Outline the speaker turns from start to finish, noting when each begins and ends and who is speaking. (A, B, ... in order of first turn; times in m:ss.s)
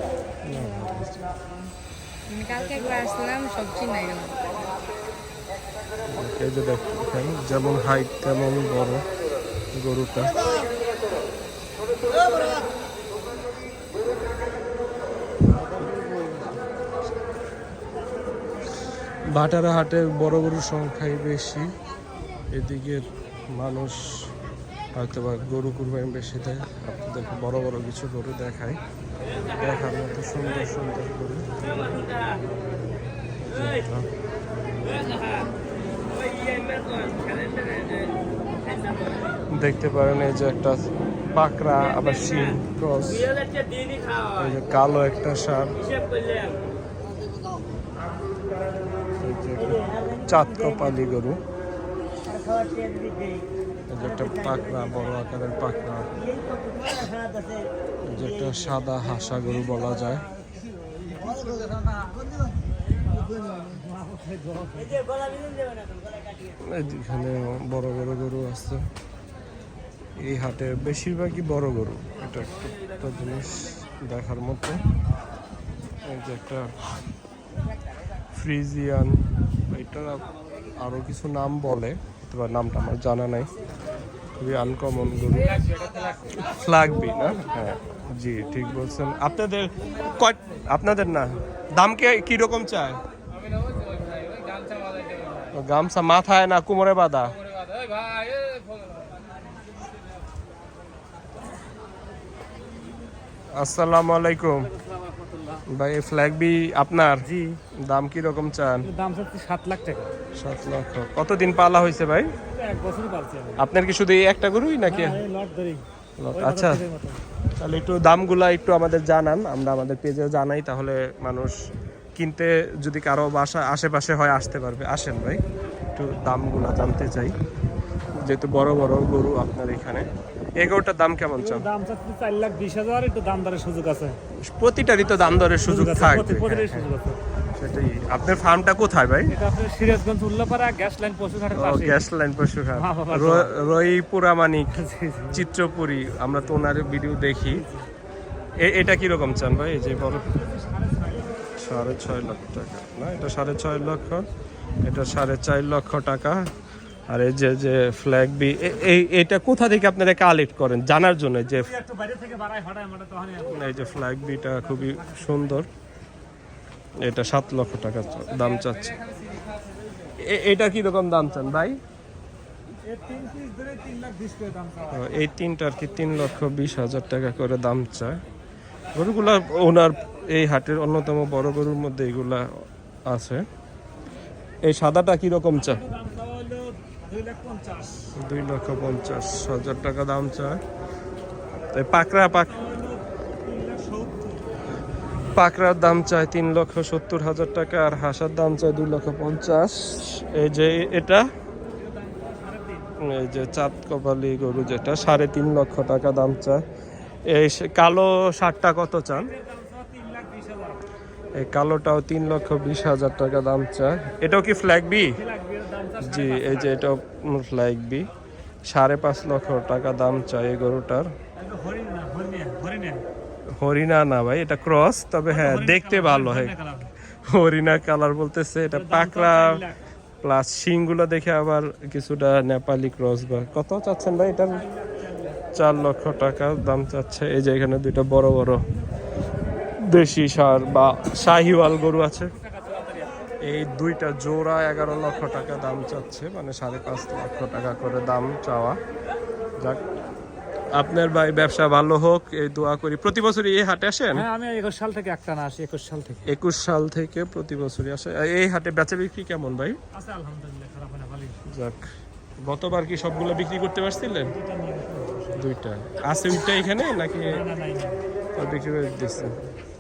0:00.5-0:01.2 A
0:00.5-0:01.0 B
0:02.3-0:04.6 B
0:06.1-0:09.0 A
0:09.7-0:10.4 A
0:19.3-0:21.7 A
0:22.5-0:24.0 A
0:25.0-0:28.8 A
0:29.6-0:32.0 A
0:33.5-0:34.1 A
0:39.5-0:40.8 A
0:41.3-0:43.3 A
0:44.3-0:45.8 A
0:49.2-0:51.4 A
0:53.9-0:56.2 A
0:58.0-1:00.3 A
1:03.5-1:05.0 C
1:06.6-1:08.8 A
1:10.2-1:14.8 A
1:16.1-1:16.7 A
1:18.4-1:20.2 A
1:20.8-1:23.5 A
1:24.4-1:25.6 A
1:26.3-1:33.0 A
1:35.5-1:37.4 A
1:43.6-1:44.7 A
1:45.7-1:47.3 A
1:47.2-1:47.6 C
1:47.8-1:48.9 A
1:48.8-1:50.1 C
1:50.4-1:52.3 A
1:52.5-1:53.6 C
1:53.6-1:55.2 A
1:54.9-1:57.2 C
1:56.2-1:56.8 A
1:57.6-2:01.5 A
2:02.2-2:05.4 A
2:06.0-2:07.4 A
2:08.2-2:10.0 A
2:10.6-2:11.7 A
2:11.4-2:14.2 C
2:14.4-2:16.9 A
2:15.6-2:17.2 C
2:17.6-2:19.3 A
2:19.3-2:22.0 C
2:21.6-2:24.8 A
2:22.7-2:23.5 C
2:24.7-2:25.4 C
2:25.3-2:27.6 A
2:27.5-2:27.9 C
2:28.6-2:30.3 A
2:30.3-2:31.4 C
2:31.6-2:34.2 A
2:34.8-2:36.5 A
2:37.1-2:41.7 A
2:41.6-2:43.7 C
2:43.5-2:45.7 A
2:47.0-2:49.0 A
2:50.2-2:51.8 A
2:52.9-2:55.1 C
2:54.9-2:58.2 A
2:58.9-3:02.4 A
3:03.1-3:03.4 A
3:04.6-3:05.8 A
3:05.6-3:08.1 C
3:08.2-3:10.6 A
3:11.7-3:12.6 A
3:12.3-3:14.5 C
3:15.4-3:21.2 A
3:21.8-3:22.9 C
3:23.0-3:26.6 A
3:27.3-3:29.3 A
3:29.1-3:30.8 C
3:31.4-3:35.2 A
3:35.0-3:36.8 C
3:36.0-3:38.1 A
3:38.7-3:41.1 A
3:41.4-3:43.0 C
3:43.6-3:46.6 A
3:45.3-3:46.9 C
3:47.3-3:49.6 A
3:48.7-3:49.8 C
3:50.2-3:54.6 A
3:54.6-3:55.4 C
3:55.6-3:58.6 A
3:59.9-4:02.3 A
4:02.4-4:03.2 C
4:03.4-4:08.8 A
4:10.8-4:14.3 A
4:14.1-4:16.3 C
4:16.3-4:19.8 A
4:19.9-4:21.5 C
4:21.5-4:21.9 A
4:22.4-4:24.3 A
4:24.3-4:25.4 C
4:25.4-4:27.4 A
4:27.3-4:28.0 C
4:28.4-4:29.4 A